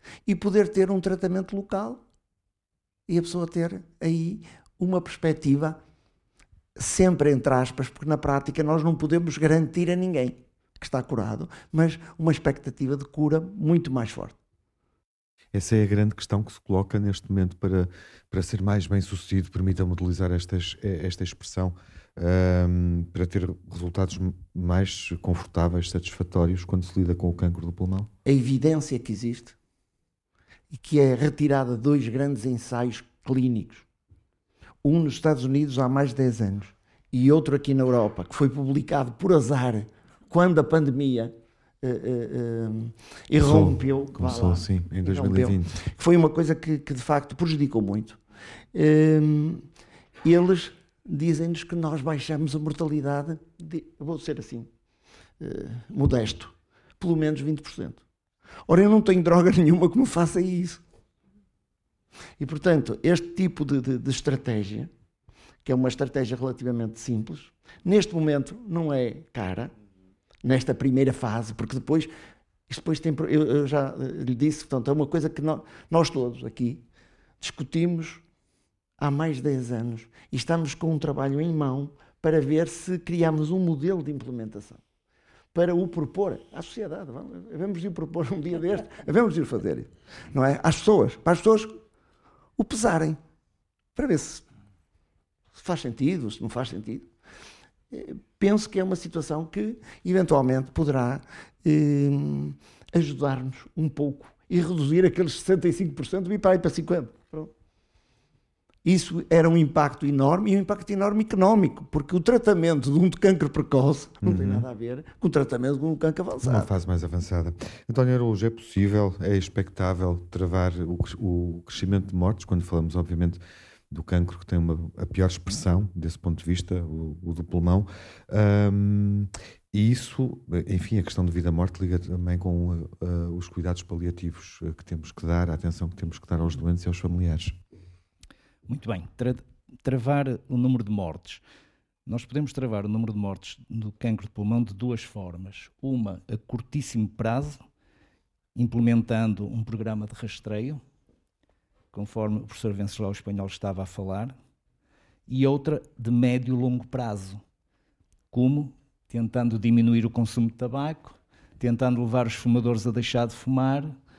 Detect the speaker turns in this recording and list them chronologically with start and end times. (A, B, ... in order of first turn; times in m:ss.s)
0:00.2-0:02.0 A
0:03.1-0:05.8 A
0:06.8-0:14.4 A
0:15.5-0:28.1 B
0:28.2-0:29.6 A
0:30.7-0:33.8 A
0:34.8-0:48.2 A
0:43.4-0:45.8 B
0:48.7-0:49.7 A
0:50.2-0:54.7 A
0:55.4-0:58.0 A
0:58.7-1:00.8 A
1:02.4-1:04.9 A
1:05.6-1:09.7 A
1:10.4-1:12.1 A
1:12.7-1:16.8 A
1:17.4-1:18.2 A
1:19.0-1:24.8 A
1:25.5-1:31.8 A
1:32.6-1:33.2 A
1:33.9-1:34.4 A
1:35.5-1:37.1 A
1:37.9-1:47.5 A
1:48.8-1:56.7 A
1:54.2-1:54.6 B
1:56.4-2:17.6 B
2:18.7-2:21.4 C
2:22.0-2:27.6 C
2:28.5-2:30.8 C
2:31.9-2:34.3 C
2:35.3-2:37.4 C
2:38.3-2:44.0 C